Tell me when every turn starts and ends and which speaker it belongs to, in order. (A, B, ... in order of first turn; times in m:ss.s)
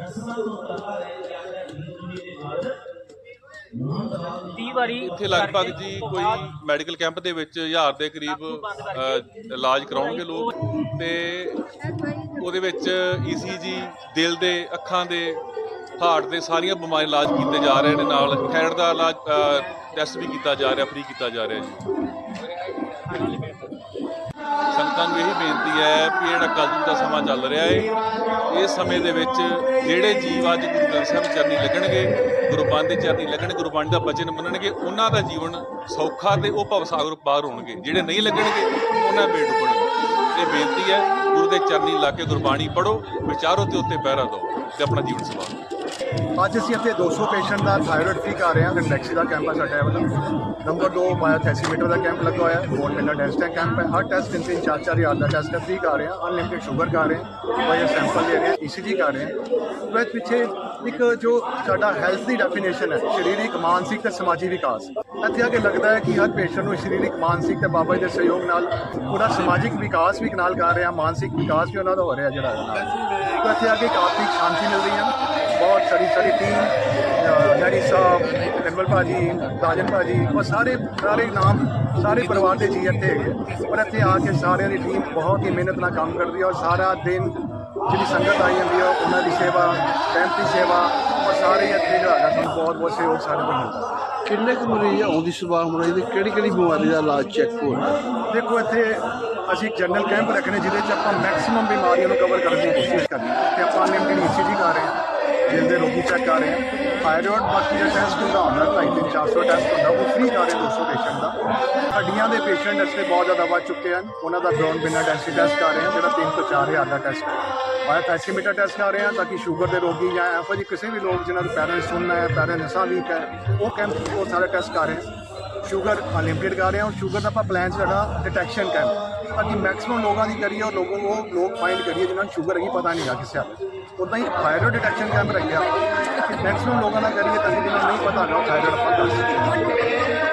0:00.5-0:01.0 A
0:04.4-0:06.5 B
0:05.0-0:11.7 C
0:08.3-0:10.5 B
0:12.4-0:15.4 C
0:16.0-0:21.8 C
0:19.5-0:19.8 B
0:23.1-0:23.6 B
0:24.7-0:27.9 C
0:28.5-0:45.6 C
0:46.4-0:50.1 D
0:50.6-0:59.4 D
0:59.9-1:33.9 D
1:34.2-1:38.0 A
1:38.3-1:51.4 D
1:51.9-2:05.1 D
2:05.6-2:20.1 D